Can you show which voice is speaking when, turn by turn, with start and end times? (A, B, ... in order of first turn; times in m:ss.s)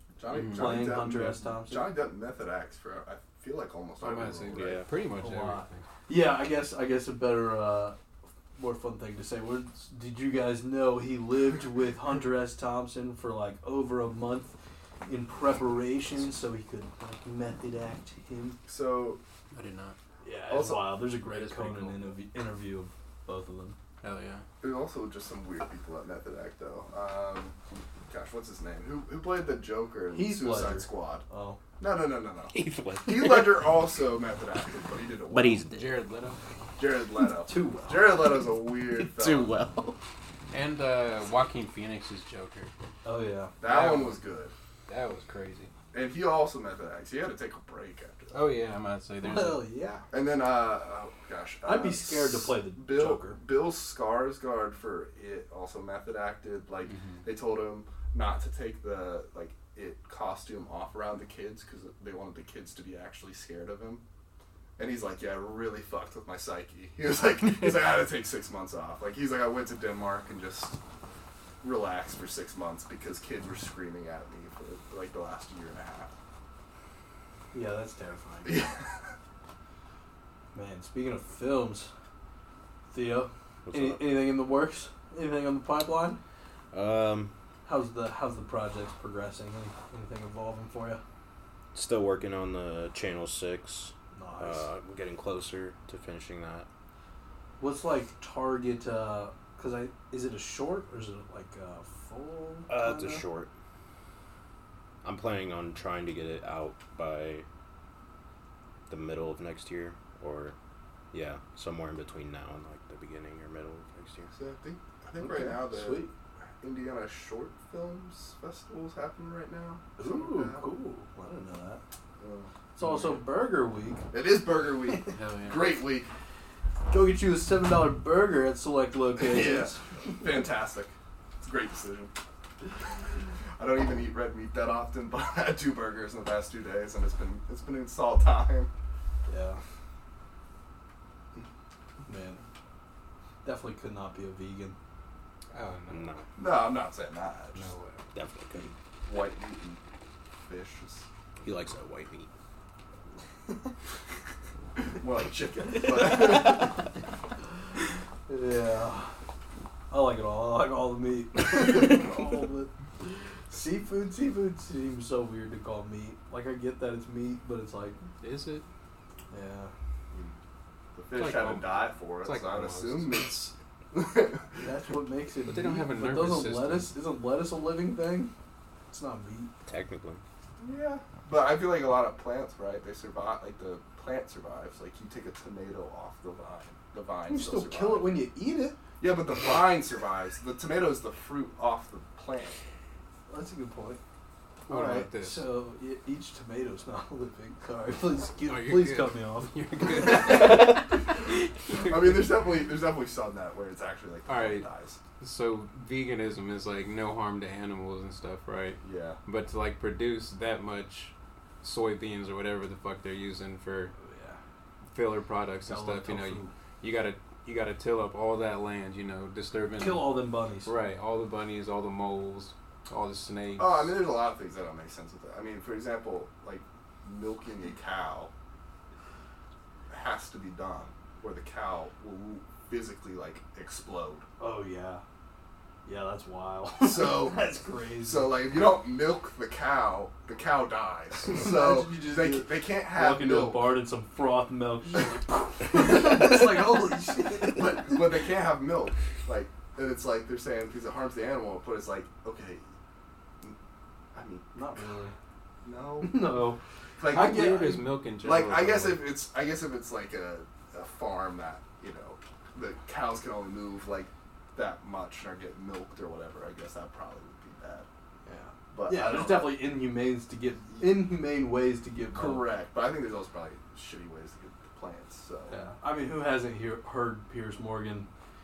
0:00.2-0:04.8 A
0:00.3-0:01.0 B
0:00.5-0:01.9 C
0:04.0-0:05.8 B
0:05.2-0:08.0 C
0:08.6-0:18.6 C
0:18.7-0:19.2 A
0:19.5-0:20.0 B
0:20.2-0:23.8 C
0:20.5-0:21.1 A
0:21.3-0:22.1 B
0:24.0-0:24.4 B
0:24.6-0:27.6 A
0:28.1-0:31.2 A
0:30.1-0:31.6 C
0:31.8-0:35.6 A
0:32.5-0:33.6 D
0:35.3-0:35.9 D
0:35.7-0:36.4 B
0:36.8-0:39.5 A
0:37.5-0:38.2 C
0:38.8-0:40.0 D
0:40.5-0:42.7 B
0:43.0-0:43.5 C
0:43.6-0:44.5 A
0:43.6-0:44.2 B
0:44.9-0:45.7 B
0:45.9-0:48.5 A
0:48.3-0:49.7 B
0:49.2-0:50.0 C
0:50.1-1:04.0 A
0:51.6-0:53.4 C
0:56.9-0:57.2 B
1:04.8-1:10.8 A
1:11.6-1:16.1 A
1:17.5-1:18.7 C
1:18.4-1:19.0 A
1:20.5-1:21.9 C
1:22.9-1:26.2 C
1:23.7-1:24.3 D
1:26.7-1:27.3 D
1:27.7-1:31.0 C
1:31.7-1:36.7 D
1:34.1-1:34.7 C
1:37.6-1:43.2 C
1:42.7-1:43.5 D
1:45.0-1:47.4 D
1:48.9-1:50.6 D
1:51.1-1:54.3 D
1:54.3-1:56.0 A
1:55.2-1:56.1 C
1:56.6-2:00.6 A
2:00.0-2:01.8 C
2:02.2-2:02.5 A
2:02.8-2:04.1 C
2:02.8-2:03.2 B
2:04.1-2:06.1 A
2:05.1-2:05.8 B
2:06.9-2:09.8 C
2:09.2-2:12.1 A
2:13.6-2:18.7 A
2:19.3-2:19.6 C
2:22.1-2:22.4 C
2:23.4-2:24.8 C
2:25.5-2:26.2 B
2:25.9-2:26.3 D
2:26.4-2:27.7 A
2:27.6-2:28.0 B
2:28.1-2:28.7 D
2:29.1-2:29.8 A
2:30.4-2:31.1 A
2:31.4-2:32.3 D
2:34.8-2:36.8 A
2:35.8-2:36.7 D
2:38.3-2:39.2 C
2:39.9-2:48.0 C
2:48.2-2:48.6 B
2:49.3-2:49.7 C
2:51.0-2:54.7 A
2:51.1-2:53.5 B
2:54.6-2:58.3 C
2:55.5-2:56.9 B
2:58.9-2:59.5 C
2:59.7-3:00.2 D
3:00.6-3:08.2 A
3:07.3-3:08.8 C
3:09.0-3:12.6 A
3:13.3-3:14.0 C
3:14.7-3:15.5 B
3:14.7-3:15.1 A
3:14.7-3:20.8 C
3:18.4-3:22.3 B
3:21.8-3:25.0 A
3:24.3-3:24.7 B
3:25.2-3:33.9 B
3:28.8-3:29.2 A
3:34.0-3:34.4 C
3:34.9-3:44.0 B
3:35.7-3:36.5 C
3:39.8-3:40.7 C
3:43.6-3:48.3 A
3:49.9-3:54.2 A
3:54.4-3:55.0 C
3:55.9-3:58.4 C
3:56.8-3:57.4 A
3:58.0-4:03.8 A
4:01.3-4:07.8 C
4:07.5-4:12.7 A
4:14.1-4:14.6 A
4:14.5-4:15.1 C
4:15.6-4:16.4 A
4:16.0-4:17.8 C
4:17.0-4:27.9 A
4:17.1-4:19.1 B
4:28.2-4:32.5 C
4:28.7-4:29.7 A
4:30.7-4:31.1 A
4:32.1-4:35.6 A
4:35.5-4:38.1 C